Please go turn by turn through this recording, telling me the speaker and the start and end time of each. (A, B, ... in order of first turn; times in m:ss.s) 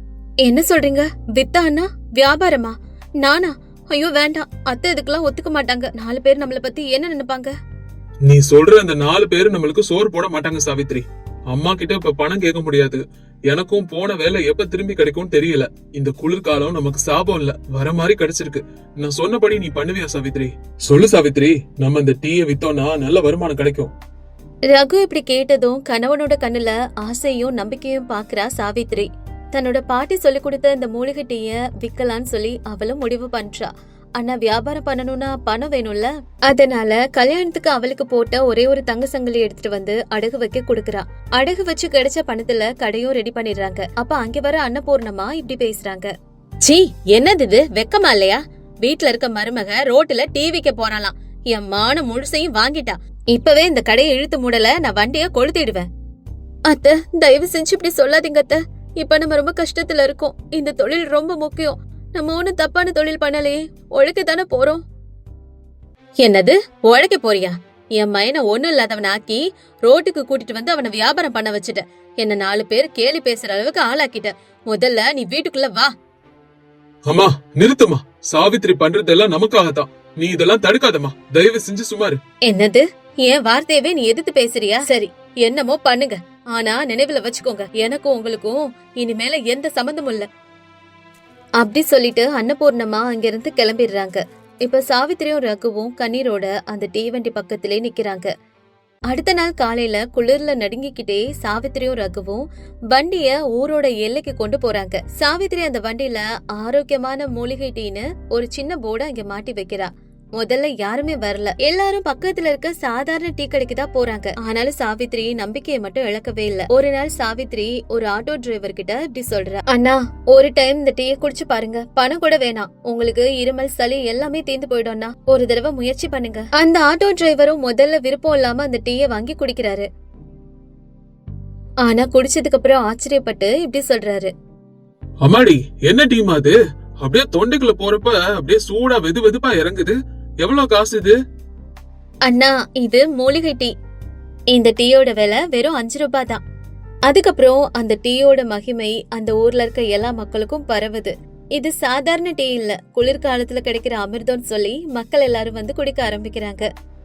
0:00.4-0:07.6 A
0:08.2-0:23.9 B
0:24.7-0:46.1 A
0:46.6-0:55.9 A
0:56.7-1:04.8 A
1:06.2-1:15.9 A
1:17.1-1:22.2 B
1:22.5-1:30.3 A
1:31.6-1:38.3 A
1:39.1-2:09.9 A
2:11.9-2:14.3 A
2:15.2-2:21.1 B
2:22.2-2:23.7 A
2:24.5-2:26.4 A
2:27.1-2:36.7 A